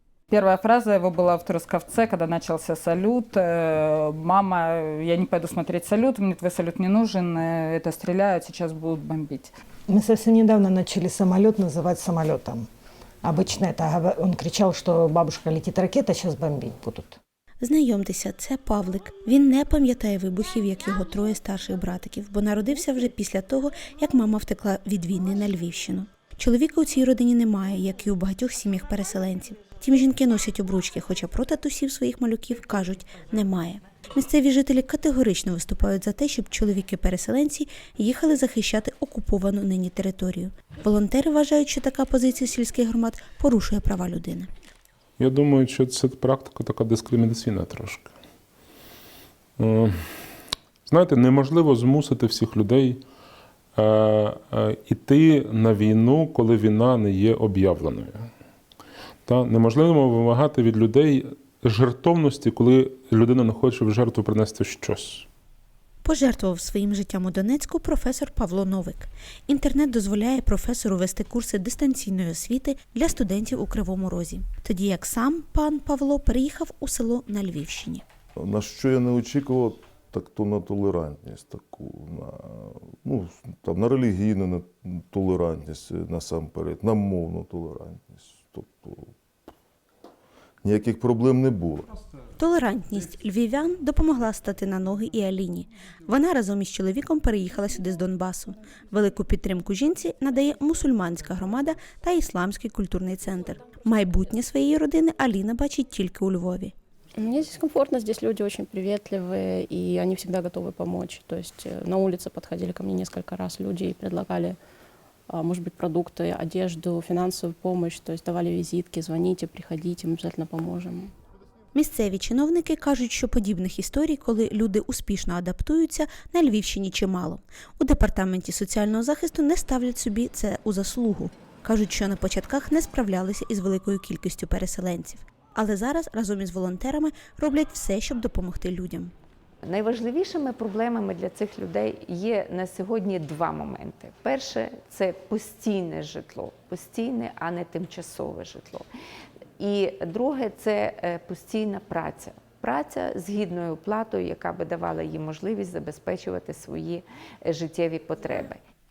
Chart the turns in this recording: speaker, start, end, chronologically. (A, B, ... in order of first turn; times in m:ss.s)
0:00.3-0:09.5 A
0:09.9-0:12.7 B
0:13.2-0:17.2 B
0:17.6-0:44.5 C
0:45.2-0:48.1 D
0:49.6-0:50.2 D
0:50.9-0:53.0 D
0:53.8-0:58.3 D
0:59.3-1:05.3 D
1:06.0-1:18.0 C
1:18.4-1:29.1 E
1:30.6-1:32.0 E
1:32.4-1:46.7 C
1:47.2-1:54.6 F
1:55.3-2:01.1 F
2:01.7-2:19.1 C
2:19.6-2:28.9 G
2:29.6-2:38.6 G